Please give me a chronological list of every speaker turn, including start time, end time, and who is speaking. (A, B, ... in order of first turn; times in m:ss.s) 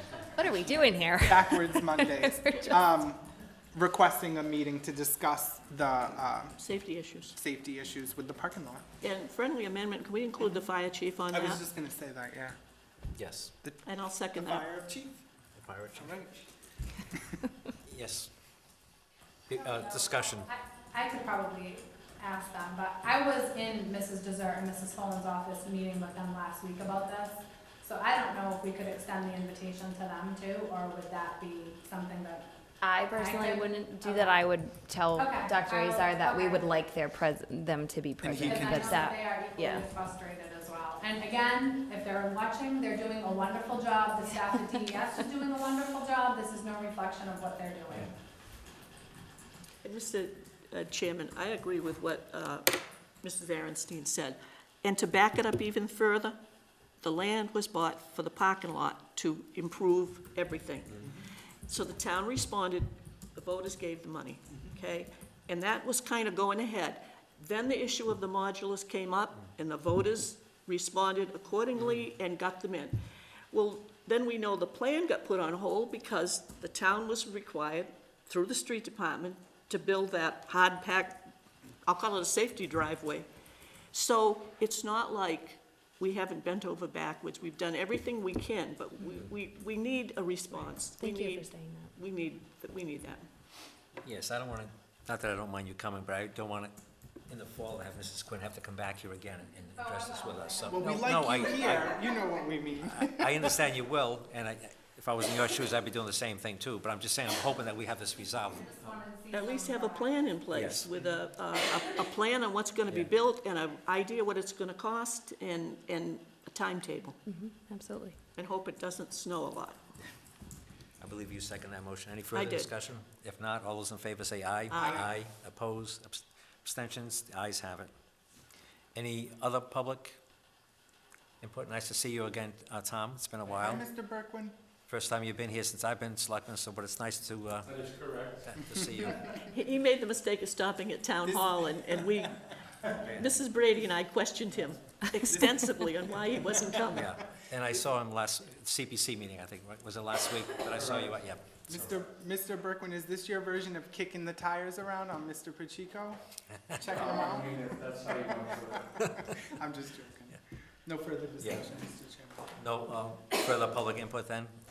0:00.4-0:02.8 A
0:00.4-0:06.6 B
0:06.6-0:07.4 C
0:07.4-0:08.8 B
0:09.0-0:11.6 C
0:11.3-0:12.6 B
0:13.2-0:13.5 D
0:13.6-0:15.2 B
0:13.8-0:14.7 C
0:15.5-0:16.2 D
0:16.0-0:16.4 B
0:17.8-0:18.3 D
0:19.5-0:20.5 D
0:19.5-0:32.5 E
0:32.8-0:39.9 A
0:33.1-0:34.4 E
0:35.2-0:36.7 E
0:38.2-0:38.9 B
0:38.4-0:48.2 E
0:49.8-0:56.4 C
0:57.0-1:01.1 C
1:01.7-1:13.0 C
1:13.5-1:21.3 C
1:21.8-1:23.3 C
1:23.9-1:33.3 C
1:30.8-1:31.9 A
1:34.0-1:36.7 D
1:37.3-1:42.0 D
1:39.6-1:41.5 E
1:40.7-1:43.5 B
1:42.8-1:49.0 D
1:48.5-1:50.4 E
1:49.3-1:57.2 C
1:50.5-1:50.9 D
1:57.2-1:58.2 A
1:58.4-1:59.8 C
2:01.0-2:07.9 D
2:02.3-2:02.7 C
2:04.7-2:05.1 C
2:04.8-2:05.1 B
2:08.9-2:10.2 D
2:11.4-2:13.8 D
2:13.5-2:14.5 B
2:14.9-2:17.9 D
2:17.6-2:18.5 F
2:18.4-2:19.3 D
2:19.3-2:27.1 C
2:23.0-2:23.3 D
2:26.9-2:31.9 D
2:30.7-2:31.2 F
2:31.7-2:36.2 B
2:36.5-2:36.9 D
2:36.7-2:42.6 B
2:36.9-2:38.9 F
2:39.0-2:39.5 D
2:42.6-2:44.5 D